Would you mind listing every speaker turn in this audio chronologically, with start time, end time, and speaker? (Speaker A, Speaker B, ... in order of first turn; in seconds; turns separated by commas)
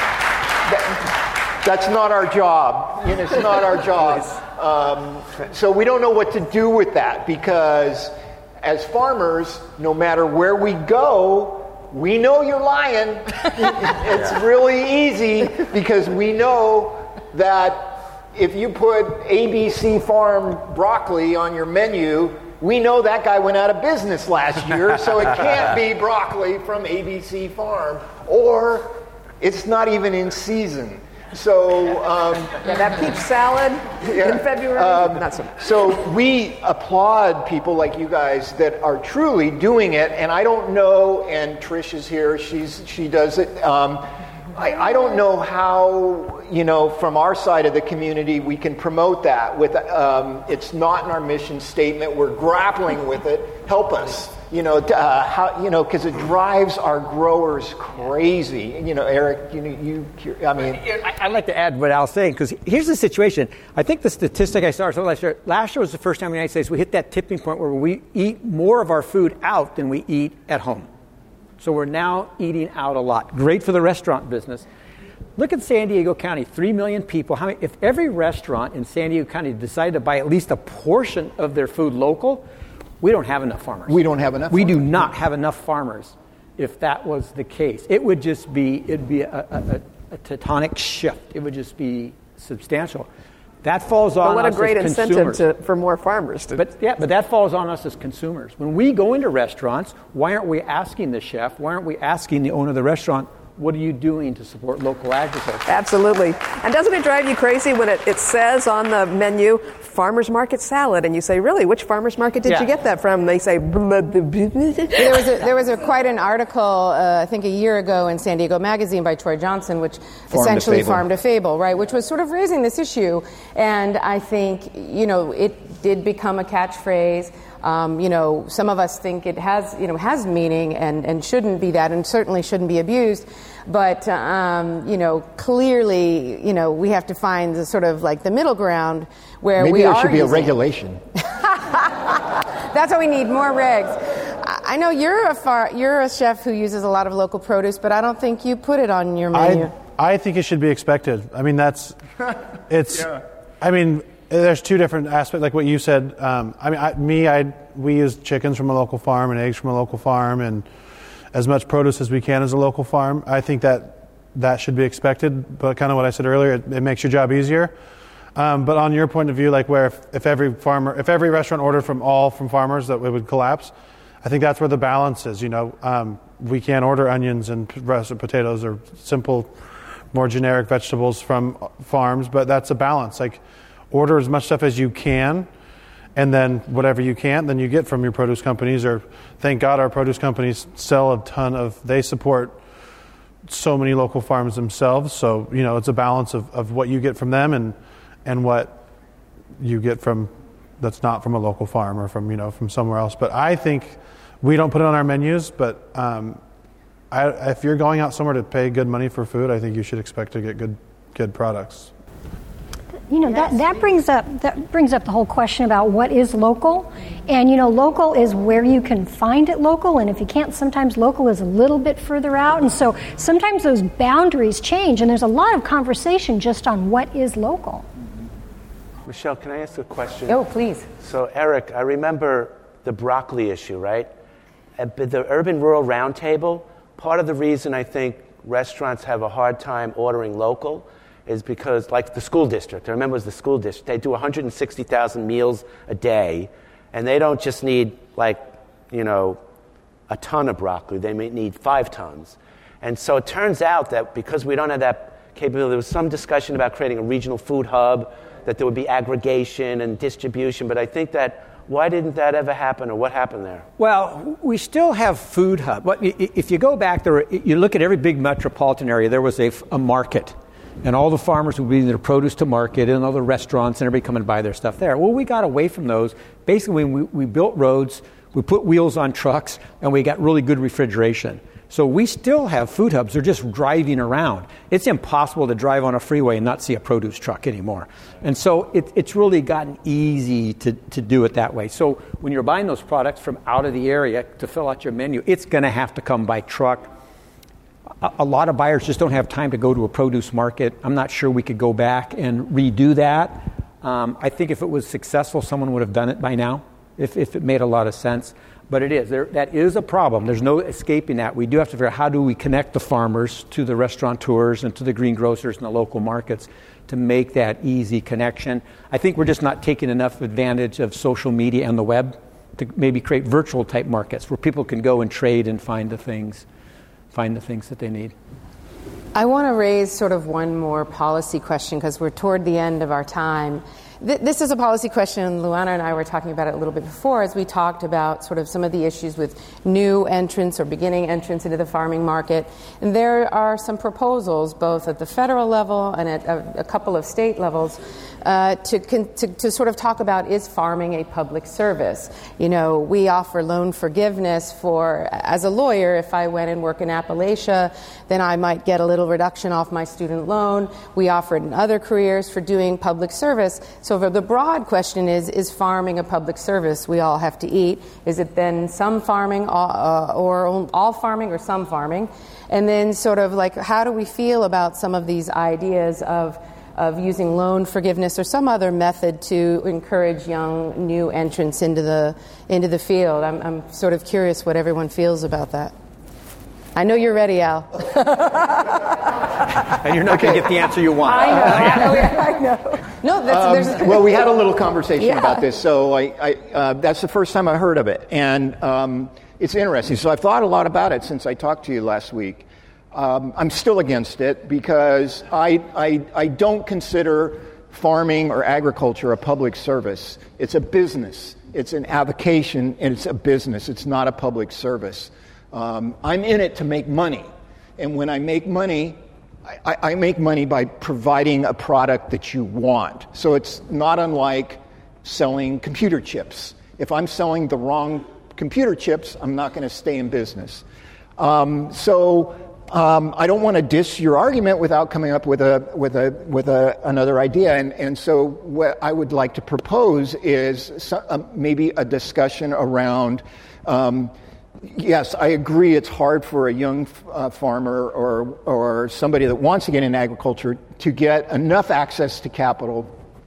Speaker A: 0.7-32.6, Speaker B: 32.6-36.0, Speaker A: 34.0-60.9, Speaker C: 60.9-70.9, Speaker C: 71.6-74.7, Speaker C: 75.4-82.5, Speaker C: 83.0-93.1, Speaker A: 83.9-85.0, Speaker C: 93.6-95.4, Speaker B: 94.2-96.7, Speaker C: 96.6-105.7, Speaker B: 105.7-115.3, Speaker C: 112.5-112.7, Speaker D: 115.0-140.5, Speaker A: 120.3-121.0, Speaker A: 139.6-141.0, Speaker D: 141.2-149.7, Speaker E: 149.3-152.0, Speaker E: 152.7-160.7, Speaker E: 161.3-167.7, Speaker E: 168.4-179.5, Speaker E: 180.1-185.5, Speaker E: 186.2-192.6, Speaker E: 193.5-198.8, Speaker E: 199.6-206.4, Speaker E: 207.1-211.9, Speaker F: 213.1-227.8, Speaker G: 229.1-234.1, Speaker D: 230.3-230.9, Speaker G: 234.8-249.4, Speaker G: 250.1-263.7, Speaker C: 263.8-296.9, Speaker C: 298.0-326.4, Speaker C: 327.1-328.1, Speaker D: 329.1-385.7, Speaker D: 386.8-388.7, Speaker C: 389.7-392.1, Speaker A: 390.1-392.1, Speaker D: 391.2-394.3, Speaker A: 393.3-419.0, Speaker D: 395.0-395.4, Speaker A: 419.6-430.6, Speaker A: 431.2-444.1, Speaker A: 444.7-452.9